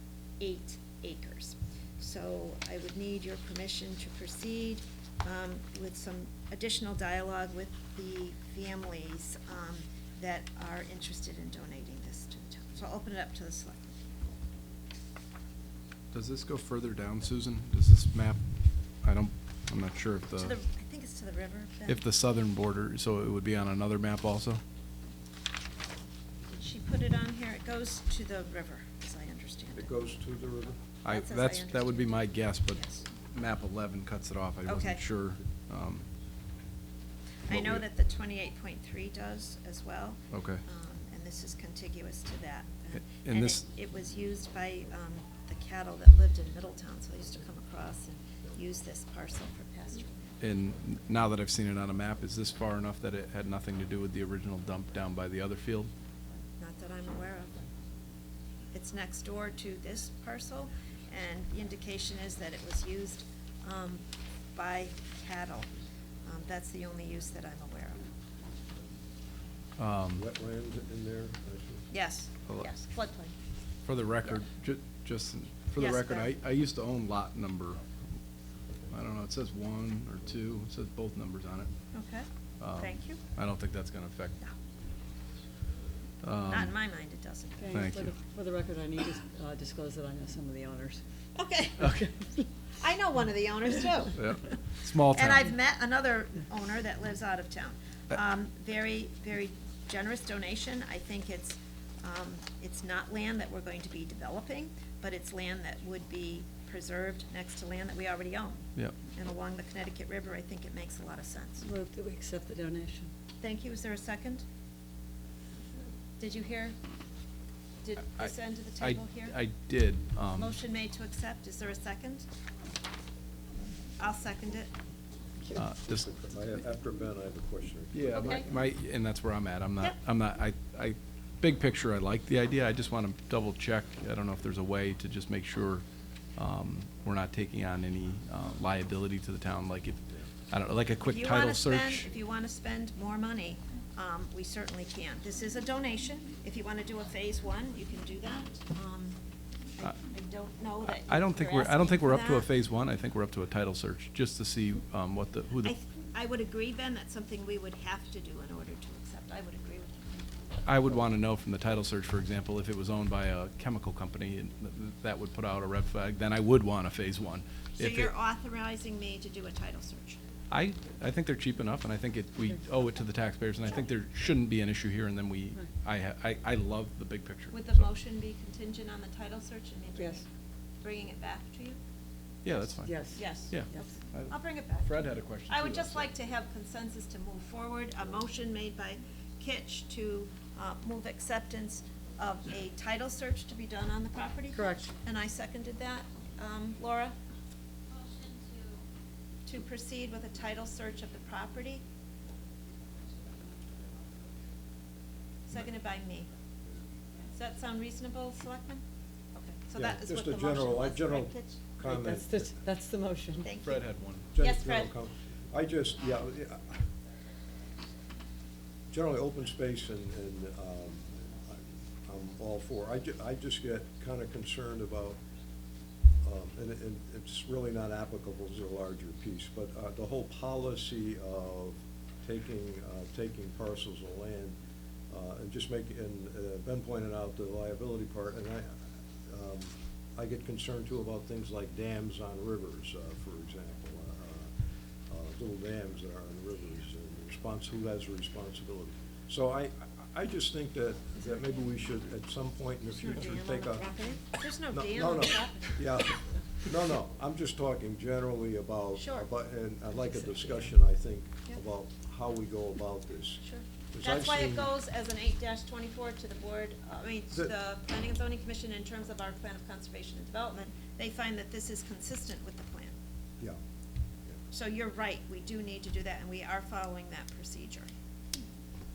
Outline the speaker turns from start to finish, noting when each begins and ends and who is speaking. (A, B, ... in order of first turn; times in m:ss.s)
0:00.4-0:14.4 A
0:16.1-0:18.4 B
0:19.0-0:20.6 B
0:20.4-0:22.0 A
0:21.9-0:24.6 B
0:26.5-0:30.0 A
0:29.8-0:30.8 C
0:31.0-0:36.1 B
0:31.1-0:33.0 A
0:34.6-0:35.0 A
0:37.5-0:50.2 A
0:37.5-0:37.8 B
0:40.3-0:40.6 B
0:43.0-0:43.6 B
0:50.4-0:55.9 B
0:56.6-0:57.6 A
0:58.7-1:05.7 A
1:06.2-1:08.1 A
1:09.8-1:10.2 B
1:10.1-1:11.8 C
1:11.9-1:13.3 A
1:13.8-1:17.8 B
1:15.8-1:16.3 A
1:18.9-1:21.7 B
1:21.9-1:23.2 A
1:22.6-1:24.4 B
1:26.2-1:26.7 B
1:26.5-1:27.7 A
1:27.6-1:31.0 D
1:27.7-1:28.1 B
1:31.4-1:31.9 A
1:31.9-1:32.4 D
1:32.7-1:34.2 A
1:34.2-1:35.5 B
1:35.1-1:51.7 A
1:51.6-1:53.1 D
1:53.4-1:54.4 A
1:56.2-1:56.8 A
1:57.8-1:59.4 A
1:58.2-2:00.6 B
2:00.4-2:02.3 A
2:04.0-2:04.7 A
2:05.5-2:06.0 B
2:05.5-2:08.4 C
2:07.9-2:22.0 B
2:08.1-2:08.5 A
2:21.0-2:29.2 A
2:29.8-2:32.5 A
2:30.8-2:35.7 B
2:35.6-2:40.2 A
2:40.6-2:48.1 B
2:47.8-2:50.2 A
2:50.5-2:57.8 B
2:57.5-3:00.2 A
3:00.8-3:01.8 A
3:02.4-3:06.1 B
3:02.8-3:03.9 D
3:03.1-3:04.9 A
3:05.5-3:17.2 A
3:14.5-3:14.9 D
3:19.4-3:21.8 A
3:25.5-3:26.3 A
3:27.3-3:28.8 A
3:29.3-3:31.6 A
3:29.7-3:32.5 C
3:31.8-3:33.5 D
3:33.4-3:33.8 A
3:33.6-3:34.3 B
3:34.3-3:36.8 C
3:34.4-3:34.9 A
3:38.9-3:45.2 C
3:46.2-3:54.5 C
3:55.1-4:04.5 C
4:05.1-4:13.9 C
4:12.9-4:15.8 A
4:14.7-4:23.4 C
4:18.9-4:19.3 A
4:23.4-4:33.0 A
4:23.9-4:24.7 C
4:34.5-4:37.9 A